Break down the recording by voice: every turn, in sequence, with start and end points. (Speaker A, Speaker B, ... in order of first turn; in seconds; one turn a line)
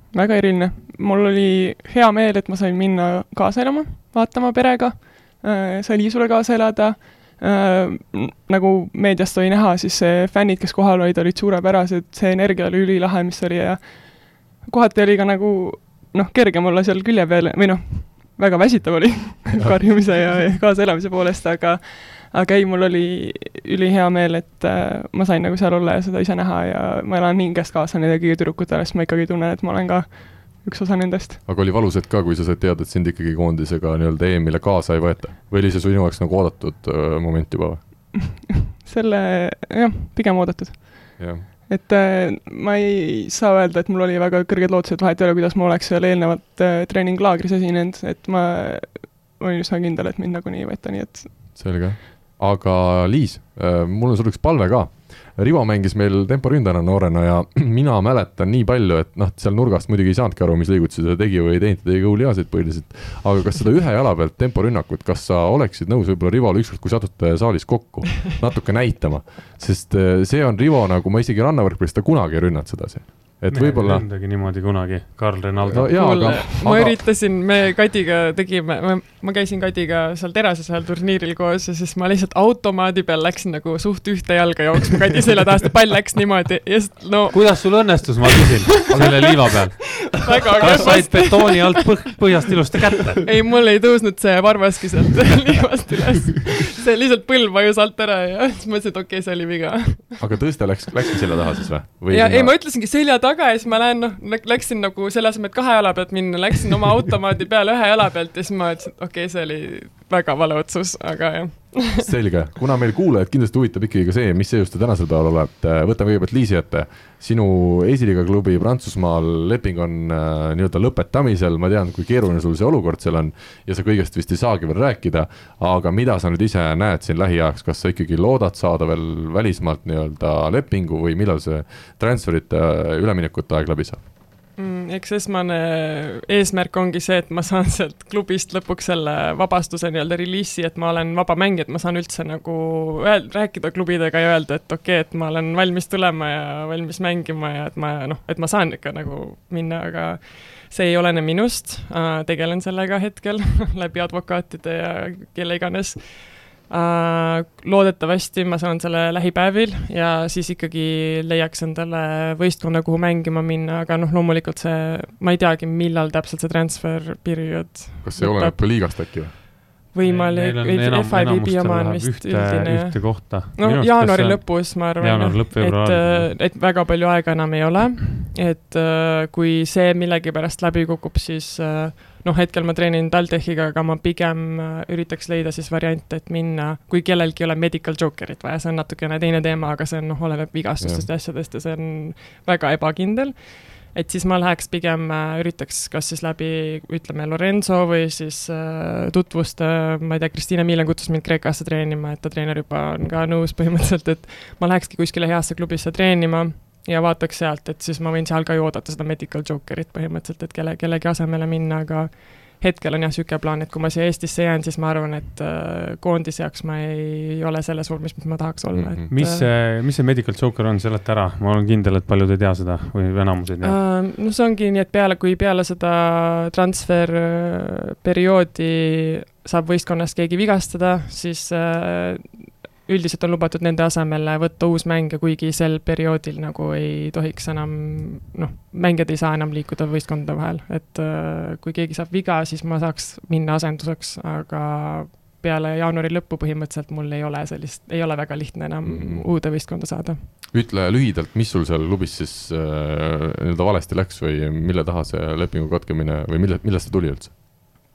Speaker A: 0.1-31.4
Speaker B: 31.4-38.2
Speaker A: 38.3-51.5
Speaker B: 41.2-41.5
Speaker B: 51.5-74.1
Speaker C: 73.5-76.3
Speaker B: 75.6-77.1
Speaker D: 75.9-88.1
Speaker C: 87.3-93.3
Speaker D: 88.9-89.2
Speaker B: 88.9-89.3
Speaker D: 90.2-91.8
Speaker B: 90.7-91.0
Speaker D: 93.2-100.2
Speaker B: 100.2-102.5
Speaker D: 102.1-112.0
Speaker B: 112.0-134.0
Speaker D: 134.6-169.1
Speaker B: 168.0-169.3
Speaker D: 169.9-219.5
Speaker C: 170.0-176.3
Speaker B: 190.8-191.1
Speaker B: 218.7-219.1
Speaker C: 219.1-223.8
Speaker D: 223.6-250.2
Speaker B: 248.8-249.3
Speaker B: 250.5-257.3